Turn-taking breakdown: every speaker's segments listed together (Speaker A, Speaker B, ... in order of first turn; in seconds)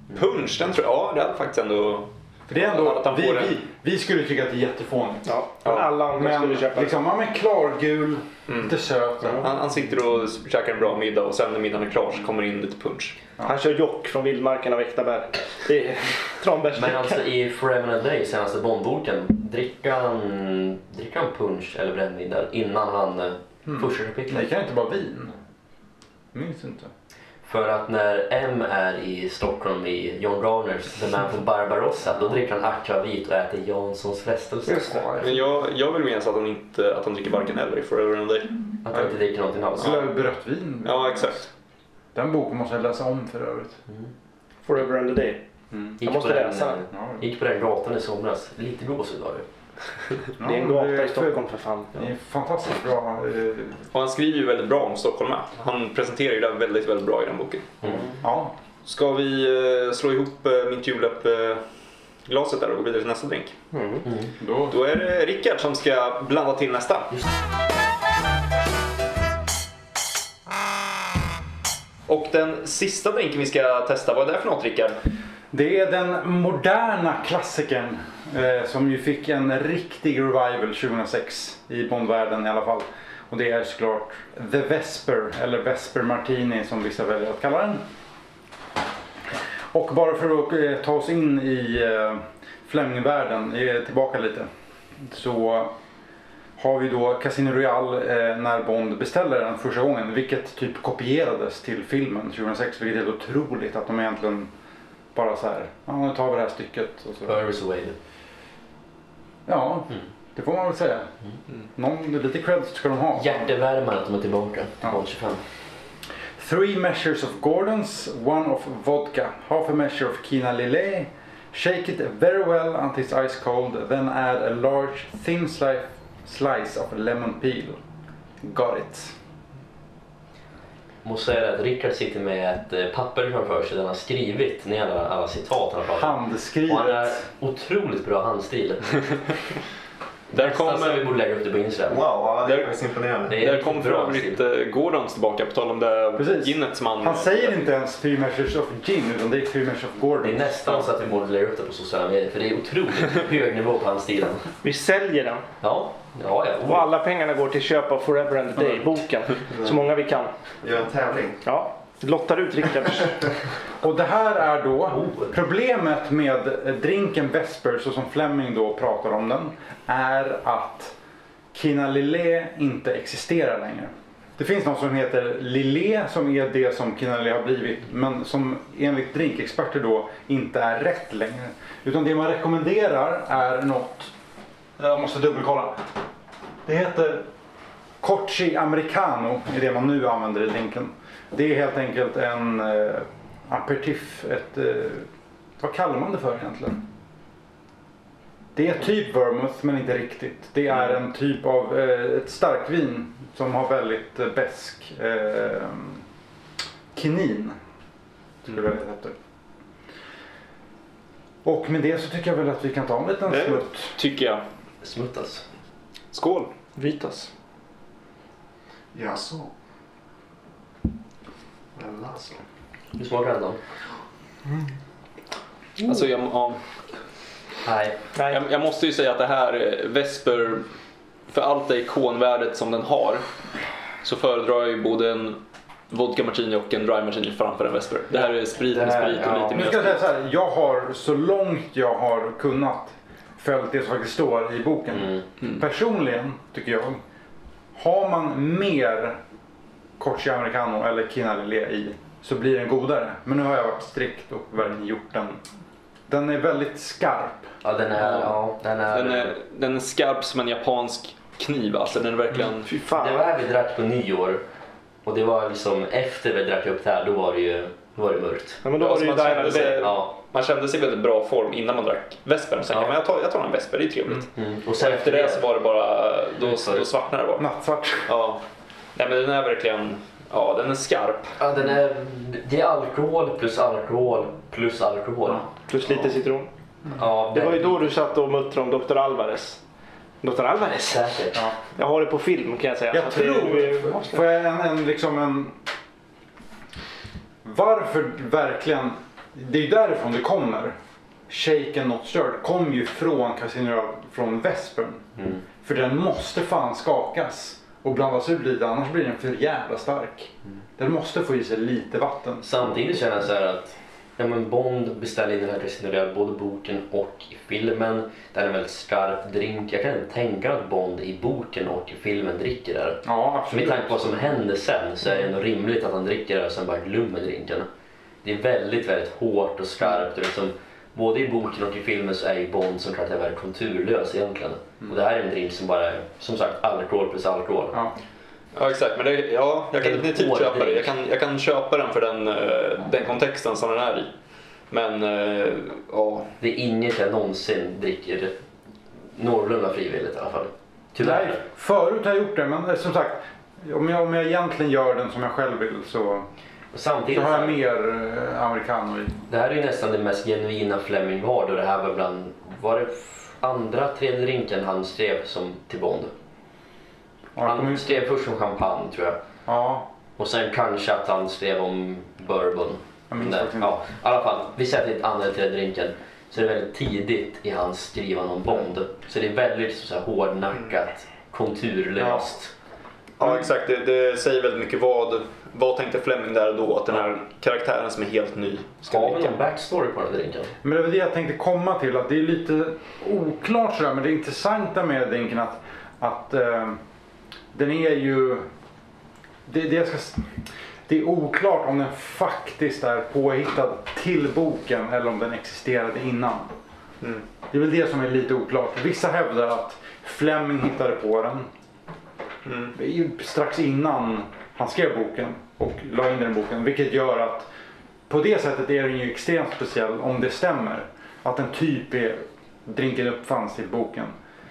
Speaker A: 0.1-3.6, 8.5-8.8, 9.3-13.2, 35.2-38.5, 39.8-40.1, 40.8-41.5, 53.9-57.7, 58.9-61.6, 62.3-63.5, 64.7-67.1, 72.1-75.0, 140.3-141.1, 142.4-142.8, 143.3-147.6, 213.3-214.4, 216.1-216.5, 225.8-226.6, 228.3-230.7, 231.3-233.2, 234.0-240.0, 258.0-258.4, 258.9-262.7, 268.8-277.5, 278.1-278.4, 278.9-281.4, 338.6-344.1, 344.7-346.3, 383.2-389.4, 412.4-412.8
Speaker B: 2.5-9.5, 23.7-25.3, 26.3-26.9, 34.8-35.3, 39.8-41.5, 42.1-43.8, 45.7-46.0, 46.9-47.2, 50.4-51.4, 52.0-53.8, 58.2-58.5, 64.4-64.8, 75.5-87.8, 89.7-95.7, 96.6-104.5, 105.1-107.4, 109.5-111.1, 111.8-113.5, 116.4-127.8, 128.4-129.1, 135.9-137.2, 146.2-150.7, 163.8-170.9, 171.5-184.1, 184.8-185.8, 186.7-187.3, 188.0-195.1, 195.6-196.8, 198.6-206.0, 206.9-207.6, 208.4-209.2, 211.4-213.9, 239.5-247.0, 247.8-249.2, 250.0-255.4, 256.1-257.5, 277.4-278.1, 292.9-295.6, 297.4-300.8, 301.3-305.1, 305.6-312.6, 323.1-324.2, 351.0-356.3, 357.1-359.2, 367.4-367.9, 369.5-369.9, 373.1-373.7, 382.0-382.2, 390.6-396.8, 397.5-398.4, 399.5-400.2, 400.9-406.5, 407.5-411.5, 412.8-417.5, 418.1-424.2
Speaker C: 5.3-7.0, 13.4-17.2, 44.7-45.4, 46.0-46.9, 50.4-52.1, 57.9-58.1, 63.7-64.1, 154.6-155.4, 156.7-160.3, 161.4-163.3, 216.8-217.3, 228.2-228.4, 262.6-263.2, 268.6-269.9, 285.7-286.5, 287.3-289.6, 290.2-294.2
Speaker D: 16.7-24.5, 27.4-35.1, 38.9-40.0, 46.0-49.5, 107.2-108.0, 113.2-115.4, 131.0-139.0, 140.3-142.0, 143.3-144.4, 150.2-154.5, 155.6-156.9, 164.9-165.3, 214.8-215.4, 223.0-223.6, 227.7-228.0, 238.6-239.9, 244.9-245.2, 257.6-259.4, 262.9-264.4, 265.1-268.6, 269.6-270.1, 272.7-273.0, 274.4-275.4, 276.4-276.9, 281.4-285.5, 286.9-287.9, 290.9-291.5, 312.4-327.7, 328.2-337.8, 339.8-340.9, 346.4-348.3, 349.1-351.4, 356.7-357.6, 359.3-366.1, 367.4-369.2, 370.2-382.5, 388.9-390.5
Speaker E: 141.9-143.4, 159.5-159.8, 160.6-161.4, 218.9-219.5, 221.8-222.4